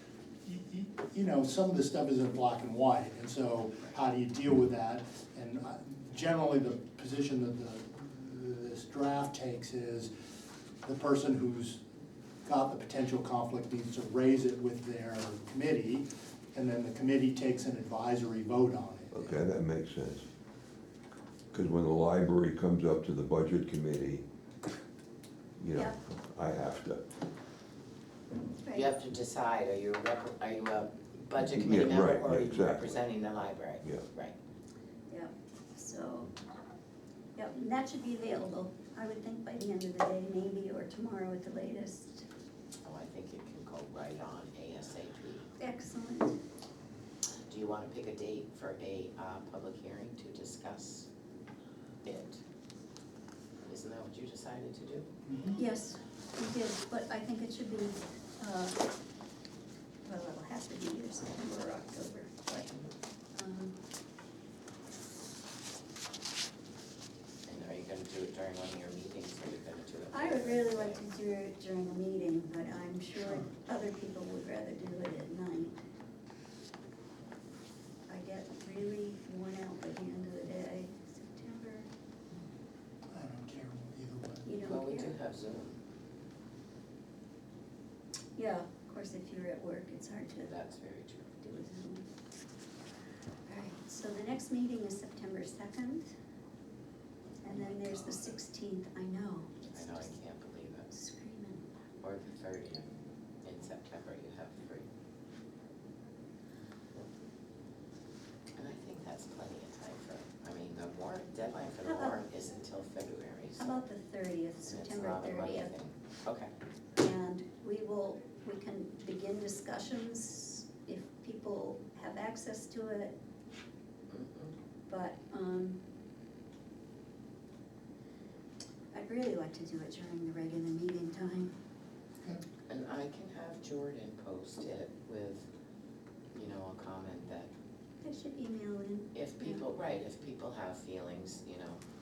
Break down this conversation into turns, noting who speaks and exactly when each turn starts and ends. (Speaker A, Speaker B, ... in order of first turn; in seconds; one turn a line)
Speaker A: 0.4-10.1
Speaker A: 10.8-11.8
Speaker A: 12.4-19.2
Speaker B: 19.1-20.3
Speaker B: 21.5-24.2
Speaker B: 25.6-27.1
Speaker C: 28.6-29.0
Speaker D: 28.7-34.4
Speaker B: 31.4-33.0
Speaker C: 35.1-36.3
Speaker C: 37.4-42.2
Speaker D: 42.8-45.5
Speaker C: 45.6-46.4
Speaker D: 47.5-51.1
Speaker D: 52.0-52.4
Speaker D: 53.7-55.1
Speaker A: 55.3-55.6
Speaker C: 55.6-58.8
Speaker C: 60.0-62.8
Speaker C: 63.4-63.8
Speaker D: 67.5-71.0
Speaker C: 70.1-75.8
Speaker A: 73.2-73.5
Speaker C: 78.1-81.9
Speaker A: 83.1-84.5
Speaker C: 84.5-85.1
Speaker D: 84.6-85.8
Speaker C: 88.4-90.5
Speaker D: 90.4-91.4
Speaker C: 91.4-92.0
Speaker C: 93.5-96.1
Speaker C: 97.4-100.1
Speaker D: 99.7-100.9
Speaker C: 100.9-101.7
Speaker D: 102.0-102.9
Speaker D: 103.5-104.9
Speaker D: 108.6-113.8
Speaker C: 111.8-112.2
Speaker C: 113.6-115.7
Speaker D: 114.6-116.5
Speaker C: 117.0-123.2
Speaker D: 124.1-124.5
Speaker C: 124.9-125.8
Speaker C: 128.9-131.5
Speaker D: 132.7-135.4
Speaker D: 136.3-137.5
Speaker C: 138.0-139.6
Speaker D: 139.1-141.8